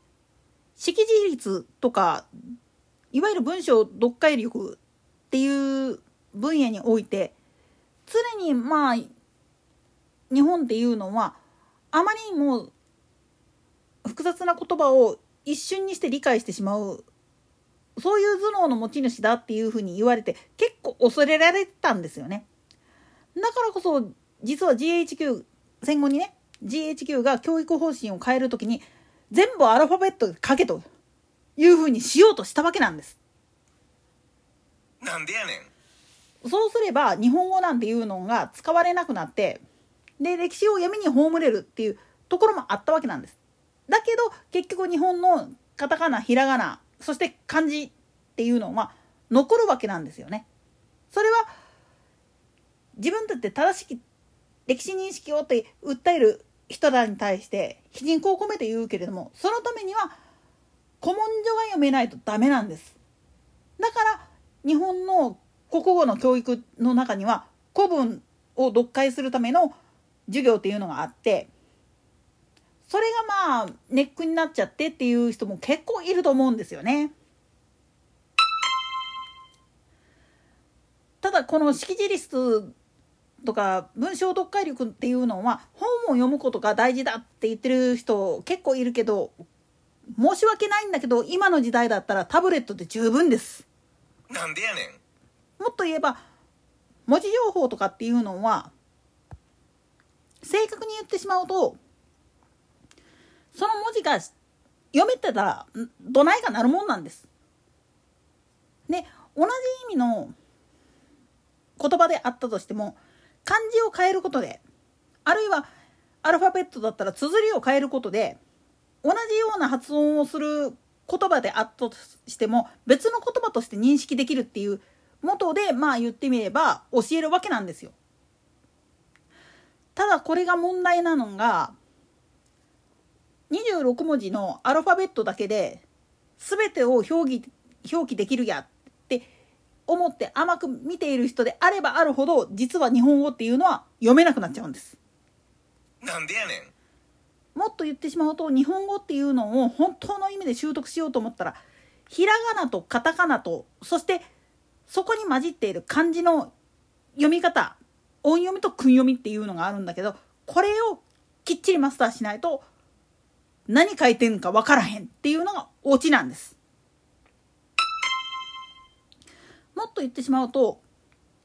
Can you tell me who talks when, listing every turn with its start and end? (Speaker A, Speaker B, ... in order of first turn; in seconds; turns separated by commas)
Speaker A: 0.8-2.3, Speaker A: 3.1-4.8, Speaker A: 5.3-7.3, Speaker A: 8.1-9.1, Speaker A: 10.3-11.4, Speaker A: 11.9-12.7, Speaker A: 14.0-17.1, Speaker A: 18.0-22.4, Speaker A: 23.4-30.9, Speaker A: 31.6-33.2, Speaker B: 35.0-35.7, Speaker A: 36.4-39.6, Speaker A: 40.2-50.5, Speaker A: 51.1-51.5, Speaker A: 53.0-54.0, Speaker A: 54.7-60.1, Speaker A: 61.0-63.0, Speaker A: 63.8-69.8, Speaker A: 70.3-71.5, Speaker A: 72.9-77.1, Speaker A: 81.2-82.7, Speaker A: 83.4-89.3, Speaker A: 90.2-93.7, Speaker B: 94.3-95.0, Speaker A: 95.6-96.2, Speaker A: 97.1-98.7, Speaker A: 100.4-101.8, Speaker A: 103.5-104.3, Speaker A: 104.9-107.3, Speaker A: 108.9-110.3, Speaker A: 111.8-114.6, Speaker A: 115.3-115.7, Speaker A: 116.2-118.4, Speaker A: 119.0-128.0, Speaker A: 130.0-131.8, Speaker A: 133.5-135.8, Speaker A: 136.4-139.3, Speaker A: 139.9-145.0, Speaker B: 146.0-146.7, Speaker A: 147.6-154.2, Speaker A: 154.9-156.5, Speaker A: 157.2-162.7, Speaker A: 163.7-166.6, Speaker A: 169.8-170.8